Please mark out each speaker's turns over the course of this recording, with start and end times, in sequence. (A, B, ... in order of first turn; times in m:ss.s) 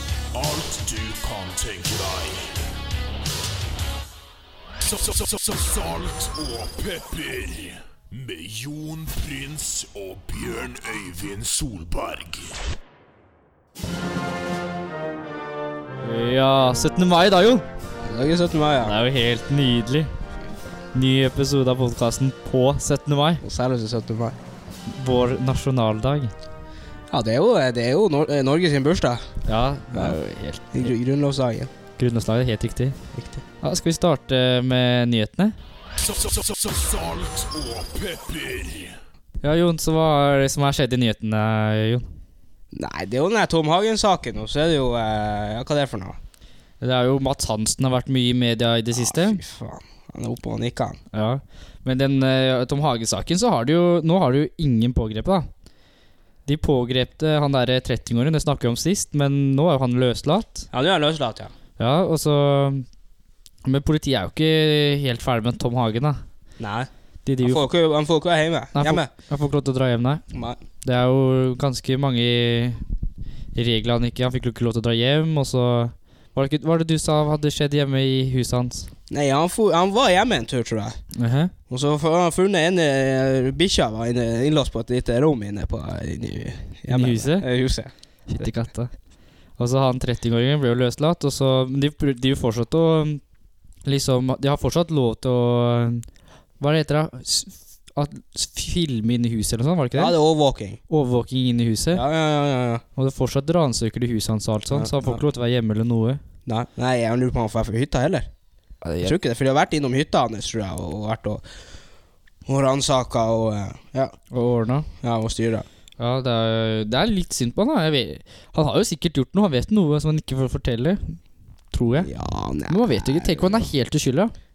0:00.3-0:02.6 A
0:04.8-0:12.6 A
0:16.0-0:17.6 B
0:18.0-0:19.0 C
0:18.8-0:20.1 B
0:20.4-0:20.7 C
0:20.9-0:23.4 B
0:23.4-0:24.4 C
0:24.9-0:26.3 B
0:27.1-0:29.3 C
0:29.5-0:30.9 B
0:29.9-0:30.2 C
0:30.7-0:31.7 C
0:32.0-0:33.0 B
0:33.1-0:33.4 C
0:33.6-0:35.6 B
0:36.0-0:39.0 A
0:39.4-0:42.1 B
0:42.7-0:46.2 C
0:46.8-0:49.4 B
0:48.9-0:51.0 C
0:51.1-0:55.5 B
0:56.4-1:00.7 B
1:00.7-1:01.5 C
1:01.8-1:02.8 B
1:03.6-1:06.2 B
1:06.6-1:06.9 C
1:07.2-1:07.6 B
1:07.4-1:09.1 C
1:08.7-1:10.2 B
1:10.3-1:10.6 C
1:10.8-1:12.8 B
1:13.6-1:18.9 B
1:19.1-1:21.0 C
1:21.1-1:21.5 B
1:21.7-1:28.4 C
1:26.9-1:27.5 B
1:28.3-1:28.9 B
1:29.6-1:33.2 B
1:33.8-1:36.0 B
1:36.6-1:40.2 B
1:40.0-1:40.8 C
1:40.9-1:42.0 B
1:41.9-1:42.8 C
1:43.0-1:46.2 B
1:44.7-1:45.2 C
1:46.4-1:48.3 C
1:48.8-1:49.1 B
1:49.0-1:51.4 C
1:52.4-1:54.1 C
1:54.3-1:54.9 B
1:55.0-1:55.7 C
1:56.0-2:01.2 B
2:01.7-2:02.1 B
2:02.0-2:03.7 C
2:02.7-2:04.3 B